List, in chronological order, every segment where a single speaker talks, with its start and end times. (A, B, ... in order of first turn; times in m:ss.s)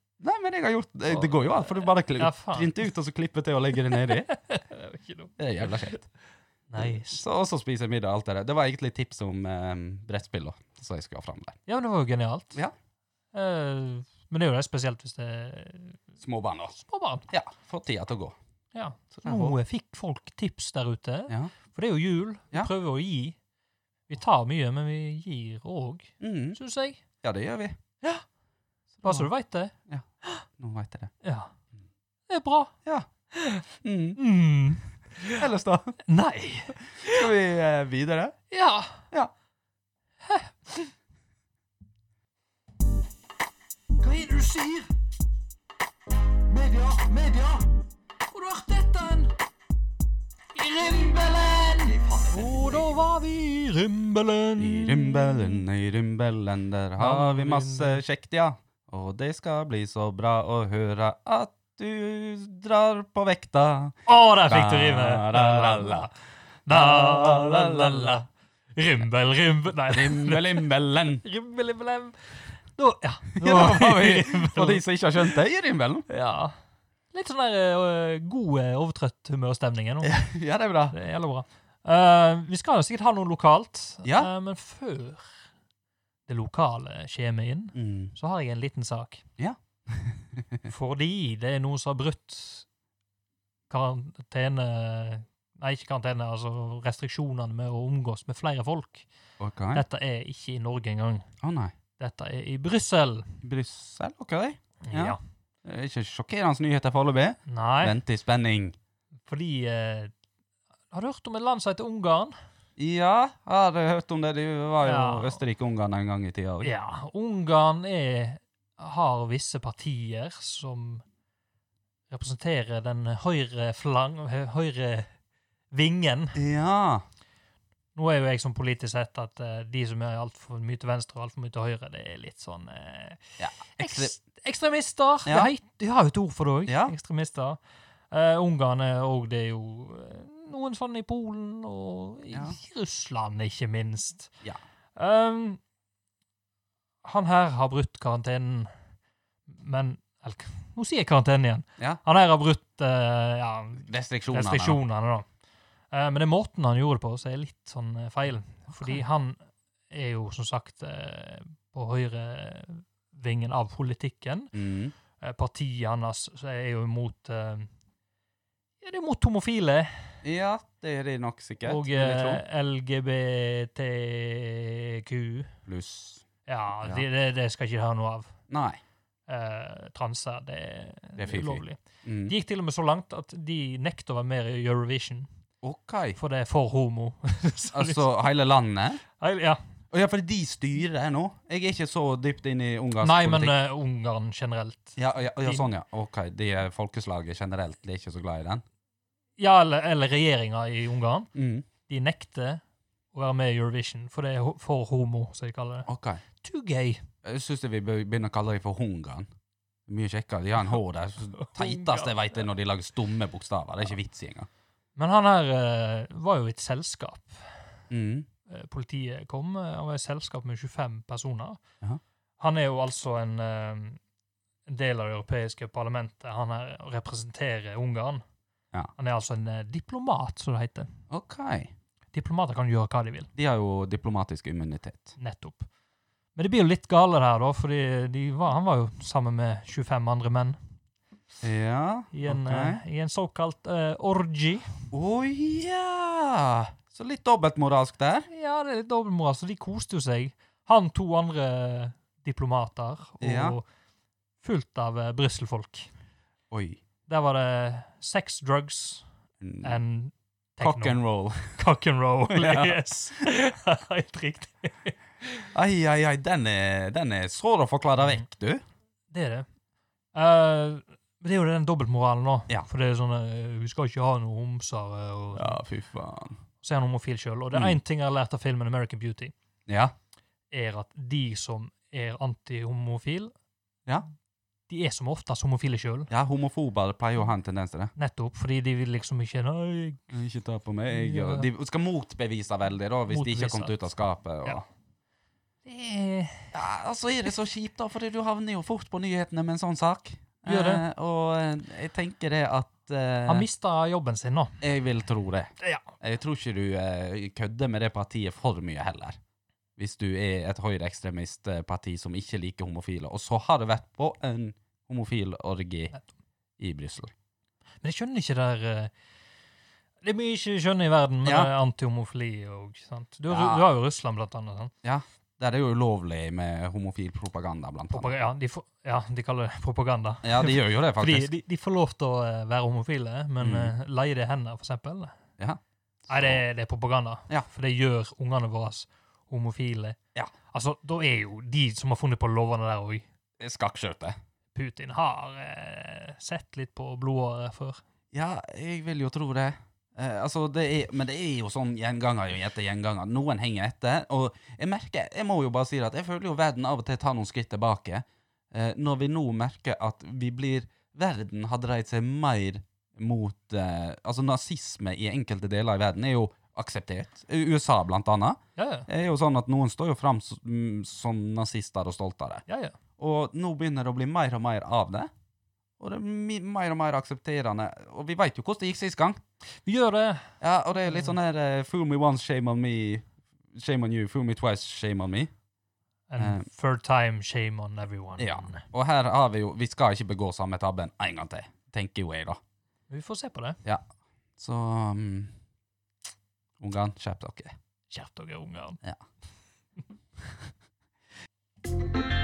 0:00.2-0:04.3 A
0:01.1-0:02.9 B
0:03.9-0:05.9 B
0:05.4-0:06.1 A
0:06.7-0:07.2 B
0:06.8-0:11.6 A
0:11.7-0:12.6 B
0:13.3-0:16.0 B
0:16.2-0:16.8 A
0:16.8-0:17.3 B
0:17.3-0:18.4 A
0:18.7-0:23.4 B
0:19.1-0:19.6 A
0:24.1-0:27.0 B
0:26.2-0:26.6 A
0:27.2-0:27.8 A
0:29.0-0:29.3 A
0:29.0-0:30.4 B
0:30.6-0:31.1 A
0:31.2-0:31.5 B
0:32.3-0:32.7 B
0:33.3-0:33.6 B
0:33.8-0:34.2 A
0:34.2-0:35.5 B
0:35.3-0:36.0 A
0:36.1-0:37.3 B
0:37.0-0:38.4 A
0:38.5-0:39.1 B
0:40.2-0:40.9 B
0:44.0-0:44.9 B
0:46.5-0:49.3 B
0:50.6-0:55.6 B
0:51.9-0:52.9 A
0:54.6-1:06.1 A
0:57.0-0:58.0 B
1:04.1-1:06.1 B
1:06.7-1:10.7 B
1:06.7-1:08.2 A
1:09.9-1:11.2 A
1:11.2-1:15.4 B
1:13.4-1:16.1 A
1:16.1-1:16.6 B
1:17.1-1:20.2 B
1:20.0-1:21.0 A
1:20.9-1:25.4 B
1:24.0-1:24.3 A
1:26.3-1:29.2 B
1:27.8-1:28.1 A
1:29.4-1:30.7 A
1:30.7-1:32.7 B
1:33.7-1:39.1 B
1:39.4-1:39.8 A
1:39.7-1:41.3 B
1:41.4-1:41.8 A
1:42.0-1:43.4 B
1:43.4-1:48.8 A
1:44.8-1:45.2 B
1:47.5-1:48.0 B
1:49.3-1:50.1 B
1:50.9-1:52.4 B
1:52.8-1:56.7 A
1:54.8-1:55.4 B
1:56.6-2:01.0 B
2:02.1-2:05.1 B
2:05.7-2:06.4 B
2:06.4-2:07.0 A
2:08.0-2:17.6 B
2:13.4-2:14.1 A
2:16.7-2:16.9 A
2:18.1-2:24.3 B
2:22.3-2:22.6 A
2:25.0-2:25.6 B
2:27.0-2:28.7 B
2:29.5-2:35.3 B
2:33.8-2:34.8 A
2:35.9-2:39.4 B
2:38.7-2:39.0 A
2:39.9-2:44.6 B
2:44.5-2:44.9 A
2:45.2-2:47.7 B
2:48.8-2:50.2 B
2:50.2-2:52.4 A
2:51.6-2:55.5 B
2:55.7-2:56.3 A
2:56.5-2:58.3 B
2:58.5-2:58.8 A
2:59.3-3:05.3 B
3:01.2-3:02.4 A
3:05.6-3:06.2 A
3:06.2-3:08.1 B
3:07.7-3:09.0 A
3:09.2-3:09.6 B
3:09.9-3:13.6 A
3:13.0-3:15.7 B
3:15.0-3:18.6 A
3:19.4-3:21.3 B
3:21.4-3:21.7 A
3:21.9-3:22.6 B
3:23.1-3:25.9 B
3:25.9-3:26.2 A
3:26.4-3:27.1 B
3:27.2-3:29.3 A
3:29.9-3:34.5 A
3:31.3-3:32.2 B
3:35.0-3:37.6 B
3:37.9-3:38.3 A
3:38.5-3:41.6 B
3:42.4-3:44.0 B
3:44.7-3:48.2 B
3:49.0-3:50.9 B
3:51.1-3:51.7 A
3:52.1-3:53.3 B
3:53.4-3:55.2 A
3:55.2-3:55.7 B
3:56.4-4:00.6 B
4:01.4-4:02.8 A
4:02.1-4:04.8 B
4:04.9-4:08.3 A
4:08.3-4:13.6 B
4:13.2-4:13.6 A
4:14.4-4:15.9 B
4:16.5-4:16.8 A
4:17.1-4:19.1 B
4:19.4-4:19.8 A
4:19.6-4:21.0 B
4:20.6-4:21.6 A
4:21.6-4:25.5 B
4:22.3-4:22.8 A
4:25.5-4:28.6 A
4:29.1-4:29.5 B
4:30.1-4:35.6 B
4:35.4-4:36.4 A
4:36.6-4:39.3 B
4:37.5-4:37.8 A
4:39.7-4:39.9 A
4:40.5-4:43.3 B
4:44.7-4:46.1 B
4:46.1-4:47.9 A
4:48.0-4:50.1 B
4:50.1-4:54.6 A
4:50.9-4:51.5 B
4:53.1-4:53.8 B
4:55.7-4:56.6 B
4:56.5-5:03.5 A
5:00.5-5:00.8 B
5:03.3-5:04.6 B
5:04.6-5:09.2 A
5:05.6-5:05.9 B
5:09.8-5:15.9 A
5:16.6-5:17.1 A
5:17.8-5:18.9 B
5:20.0-5:24.7 B
5:21.2-5:21.5 A
5:23.3-5:23.6 A
5:24.8-5:28.1 A
5:27.9-5:35.2 B
5:30.2-5:31.3 A
5:33.4-5:33.7 A
5:35.4-5:36.4 A
5:36.1-5:40.0 B
5:40.5-5:43.0 B
5:43.4-5:44.2 A
5:44.6-5:47.8 B
5:48.1-6:12.4 A
6:08.6-6:08.9 B
6:12.5-6:12.8 B
6:13.0-6:15.1 A
6:15.8-6:19.2 A
6:19.6-6:20.4 B
6:20.4-6:25.3 A
6:26.1-6:28.6 B
6:26.2-6:26.4 A
6:28.2-6:32.4 A
6:32.9-6:33.6 B
6:34.4-6:35.3 A
6:36.6-6:37.6 A
6:37.9-6:38.8 B